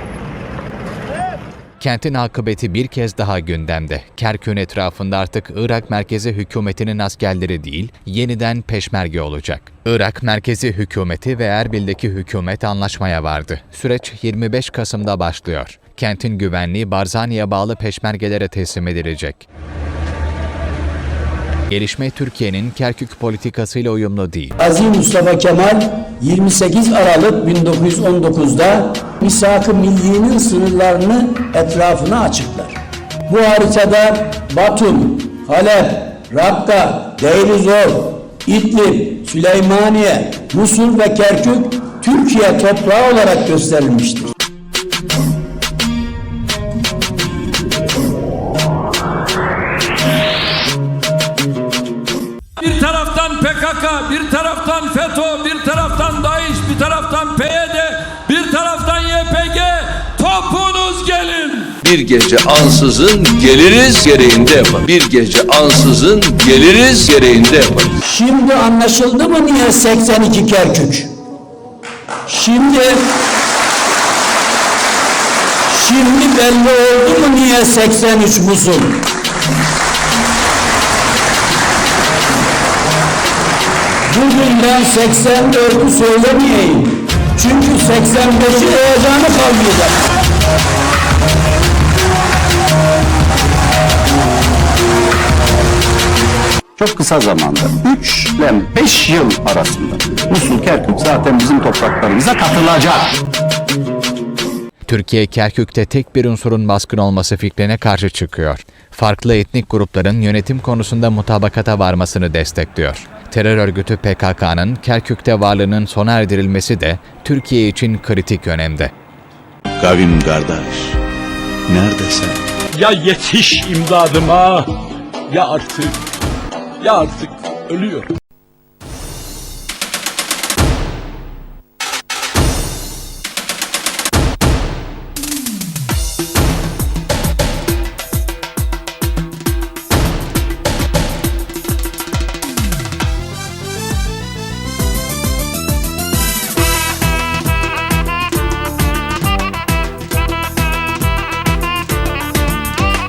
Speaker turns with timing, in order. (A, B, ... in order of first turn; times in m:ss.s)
0:01.8-0:19.4 A
0:21.7-0:24.5 A
0:24.6-0:44.3 B
0:52.6-1:01.7 C
1:01.8-1:07.9 D
1:08.0-1:11.1 B
1:12.3-1:13.0 B
1:15.7-1:19.0 B
1:24.1-1:30.0 B
1:36.8-1:43.2 E
1:44.9-1:58.9 A
1:59.8-2:01.0 F
2:01.7-2:02.4 F
2:02.7-2:04.7 G
2:05.3-2:06.0 G
2:06.8-2:08.1 G